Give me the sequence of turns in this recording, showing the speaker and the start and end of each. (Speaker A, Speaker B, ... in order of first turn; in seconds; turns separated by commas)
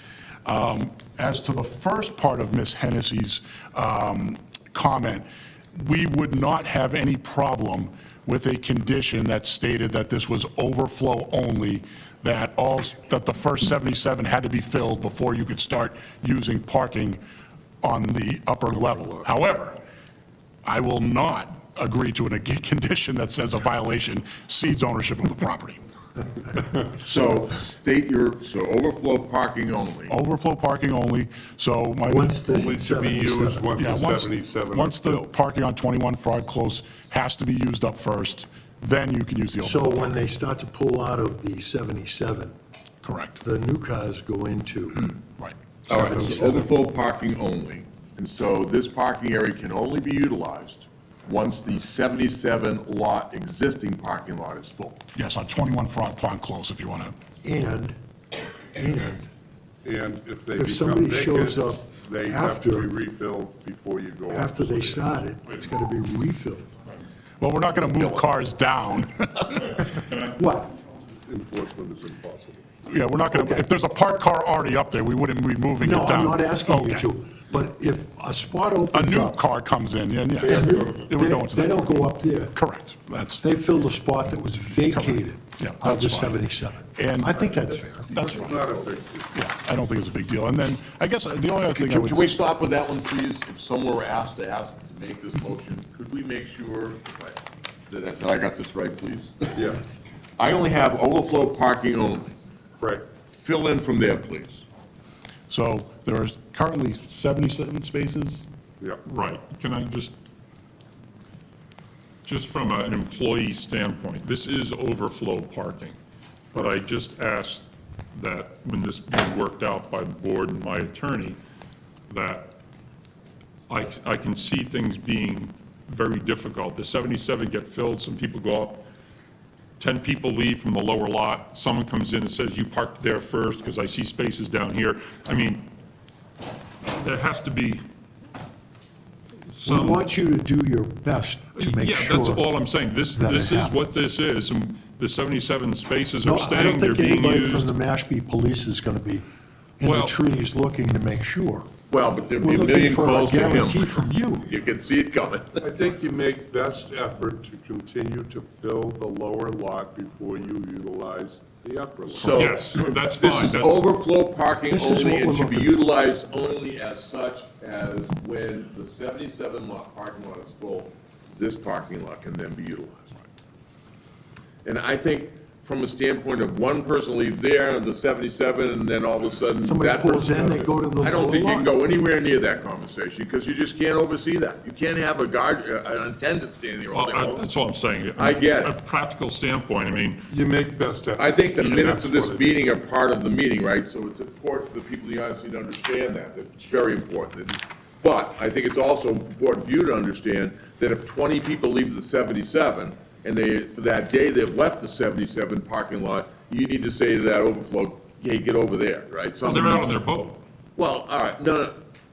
Speaker A: 0.5-17.2, Speaker A: 17.8-19.8, Speaker B: 18.7-19.3, Speaker A: 20.6-25.8, Speaker C: 26.9-30.1, Speaker A: 30.1-32.6, Speaker D: 32.1-33.7, Speaker B: 32.5-35.3, Speaker A: 33.8-40.1, Speaker D: 39.6-42.5, Speaker A: 43.0-43.4, Speaker D: 43.4-45.1, Speaker D: 45.9-46.7, Speaker C: 45.9-55.0, Speaker A: 55.1-57.1, Speaker D: 57.4-58.0, Speaker D: 58.7-59.2, Speaker B: 59.8-65.2, Speaker D: 60.5-62.9, Speaker D: 64.3-66.7, Speaker A: 67.4-69.9, Speaker D: 70.2-70.7, Speaker B: 71.3-72.7, Speaker A: 72.8-77.1, Speaker D: 73.3-73.7, Speaker D: 75.8-79.4, Speaker A: 78.9-83.5, Speaker D: 80.4-82.6, Speaker D: 83.4-88.1, Speaker A: 84.9-86.4, Speaker A: 86.9-87.5, Speaker B: 88.1-89.3, Speaker A: 88.1-88.6, Speaker A: 89.3-92.4, Speaker C: 91.8-99.6, Speaker B: 99.6-99.8, Speaker C: 100.4-102.3, Speaker B: 102.8-103.1, Speaker C: 103.2-104.6, Speaker A: 105.5-108.5, Speaker E: 109.0-110.1, Speaker E: 112.2-116.0, Speaker E: 116.5-121.4, Speaker E: 122.1-122.5, Speaker E: 123.7-128.8, Speaker E: 129.8-135.7, Speaker E: 136.9-137.8, Speaker E: 139.5-140.1, Speaker D: 139.6-142.5, Speaker E: 141.6-147.7, Speaker D: 143.1-143.9, Speaker D: 146.2-149.2, Speaker D: 149.8-151.7, Speaker E: 149.8-150.2, Speaker C: 151.9-155.6, Speaker D: 152.4-154.5, Speaker B: 155.6-162.4, Speaker C: 162.1-173.2, Speaker E: 162.3-164.0, Speaker D: 164.7-165.8, Speaker C: 174.7-187.5, Speaker D: 179.6-181.7, Speaker E: 186.9-190.2, Speaker C: 188.2-188.8, Speaker B: 190.3-192.7, Speaker C: 191.2-210.0, Speaker E: 209.4-210.4, Speaker C: 210.8-211.8